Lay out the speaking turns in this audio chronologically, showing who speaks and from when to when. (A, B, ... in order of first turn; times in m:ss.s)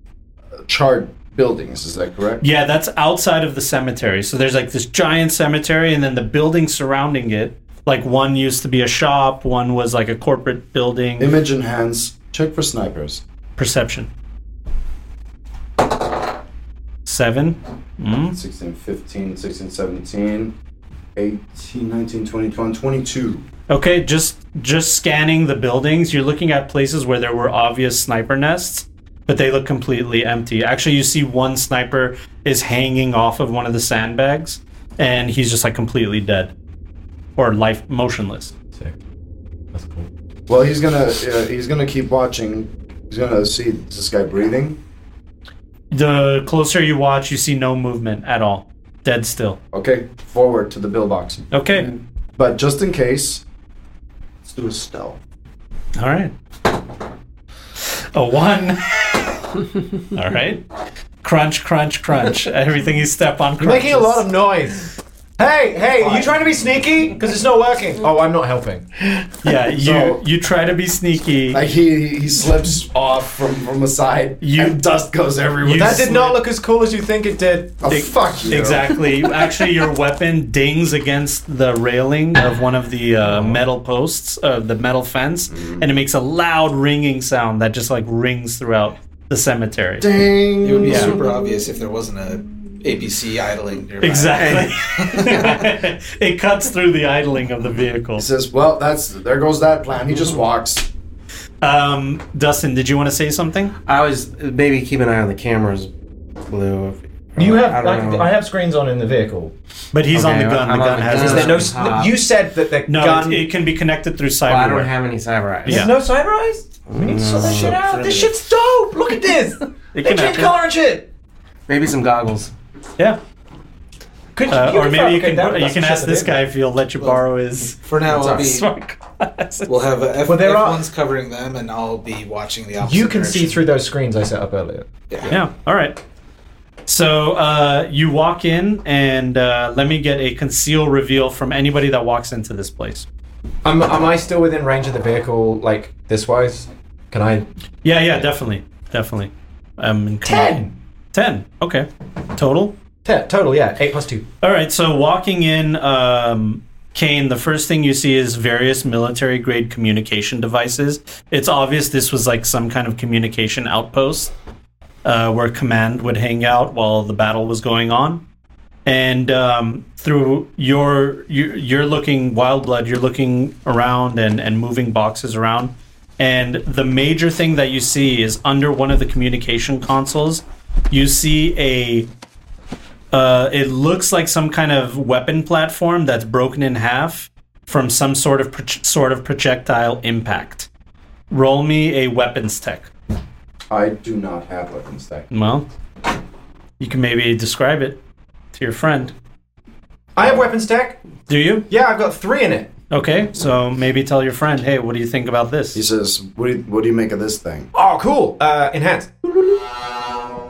0:00.7-0:02.4 A
0:02.4-0:11.4 B
0:11.2-0:13.2 A
0:13.6-0:14.1 B
0:17.1-0:18.4 B
0:18.3-0:20.5 A
0:21.2-0:23.4 A
0:23.7-0:36.5 B
0:37.4-0:38.5 B
0:39.7-0:40.1 C
0:40.5-0:44.8 A
0:45.9-0:49.6 B
0:49.7-0:51.5 A
0:51.5-0:51.9 B
0:52.4-0:53.4 A
0:54.4-0:55.2 A
0:56.0-0:56.3 B
0:57.8-0:59.5 B
1:00.1-1:00.6 B
1:01.2-1:04.3 B
1:03.6-1:08.9 C
1:09.4-1:11.6 B
1:09.8-1:10.2 A
1:11.5-1:16.3 A
1:14.4-1:14.8 B
1:15.6-1:16.4 B
1:15.7-1:18.5 C
1:17.8-1:19.0 A
1:17.9-1:30.1 B
1:25.5-1:25.8 A
1:30.0-1:31.3 A
1:30.6-1:35.7 D
1:30.8-1:31.2 B
1:34.0-1:38.3 B
1:38.2-1:40.9 A
1:41.6-1:43.8 B
1:43.9-1:45.9 E
1:46.5-1:48.3 E
1:47.4-1:49.5 C
1:49.9-1:51.8 B
1:50.1-1:52.2 E
1:51.1-1:53.5 C
1:52.9-1:54.9 B
1:54.5-1:55.9 E
1:55.7-1:55.9 B
1:55.7-2:01.1 C
1:56.9-1:57.8 E
1:57.7-1:58.3 D
1:59.9-2:00.5 B
2:01.7-2:02.5 E
2:04.4-2:06.4 C
2:04.5-2:09.7 B
2:07.8-2:08.7 D
2:08.1-2:08.5 C
2:09.7-2:13.6 D
2:10.3-2:10.9 C
2:12.8-2:14.9 C
2:15.1-2:15.4 D
2:15.3-2:16.0 B
2:16.9-2:23.1 B
2:23.6-2:27.5 C
2:27.8-2:32.8 B
2:30.2-2:30.8 C
2:33.0-2:34.3 C
2:34.4-2:44.3 B
2:45.0-2:48.2 B
2:48.9-3:02.1 B
3:03.1-3:10.7 B
3:11.3-3:12.9 B
3:13.7-3:15.3 A
3:15.3-3:15.7 B
3:16.8-3:18.0 B
3:18.5-3:19.1 B
3:20.2-3:21.0 C
3:21.3-3:21.7 B
3:21.7-3:22.7 C
3:22.9-3:25.8 B
3:25.7-3:27.7 A
3:27.7-3:29.6 C